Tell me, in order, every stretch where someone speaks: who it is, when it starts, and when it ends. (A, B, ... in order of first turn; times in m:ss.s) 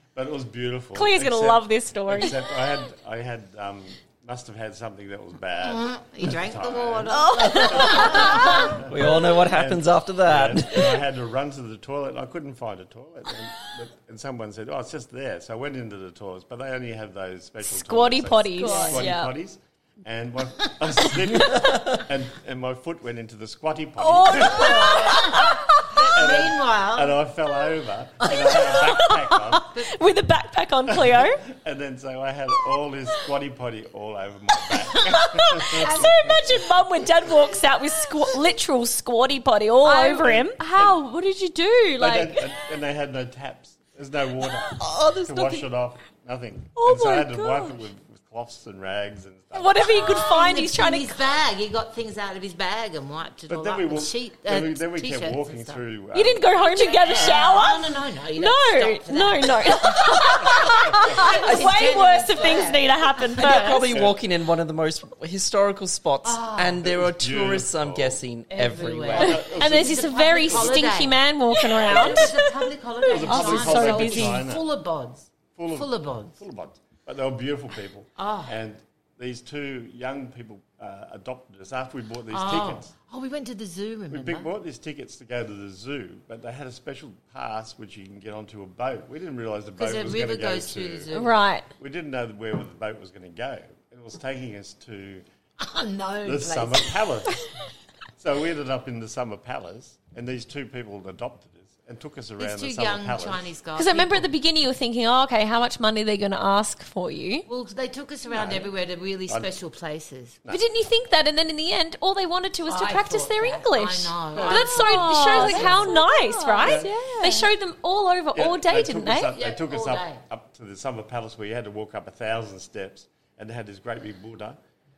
0:00.2-0:25.4 A
0:00.9-0:02.4 B
0:05.6-0:08.8 C
0:07.3-0:08.7 D
0:08.2-0:08.5 B
0:08.8-0:11.0 E
0:17.6-0:19.0 B
0:18.6-0:19.3 D
0:18.7-0:19.1 C
0:24.0-0:26.0 B
0:24.3-0:25.3 D
0:25.9-0:27.2 C
0:26.2-0:29.8 A
0:28.2-0:31.4 B
0:30.9-0:36.6 A
0:35.0-0:40.6 B
0:35.8-0:36.1 C
0:39.8-0:42.5 D
0:40.2-0:41.0 A
0:42.0-0:49.8 A
0:44.8-0:45.6 E
0:46.8-0:47.8 D
0:49.5-0:51.2 B
0:50.0-0:55.8 C
0:53.5-0:56.6 A
0:56.1-1:03.9 B
0:56.8-1:03.8 C
1:00.9-1:01.3 A
1:01.4-1:01.7 E
1:03.4-1:09.4 E
1:06.2-1:06.8 C
1:06.8-1:08.2 A
1:08.5-1:11.2 C
1:09.1-1:10.9 A
1:09.6-1:12.4 B
1:11.8-1:16.4 C
1:11.9-1:12.3 A
1:13.1-1:14.4 B
1:13.1-1:14.7 A
1:15.5-1:22.9 A
1:18.2-1:18.6 C
1:22.3-1:24.5 C
1:24.1-1:31.1 A
1:29.8-1:31.3 C
1:31.1-1:31.7 B
1:31.8-1:35.2 A
1:35.6-1:37.4 C
1:36.2-1:37.5 A
1:38.2-1:43.5 A
1:42.4-1:44.3 C
1:43.8-1:47.5 B
1:47.5-1:50.4 C
1:48.3-1:48.7 A
1:50.5-1:59.3 B
1:52.7-1:56.0 C
1:54.4-1:54.7 A
1:54.4-1:57.5 D
1:56.6-1:56.9 A
1:58.4-2:04.6 A
1:59.3-2:00.2 C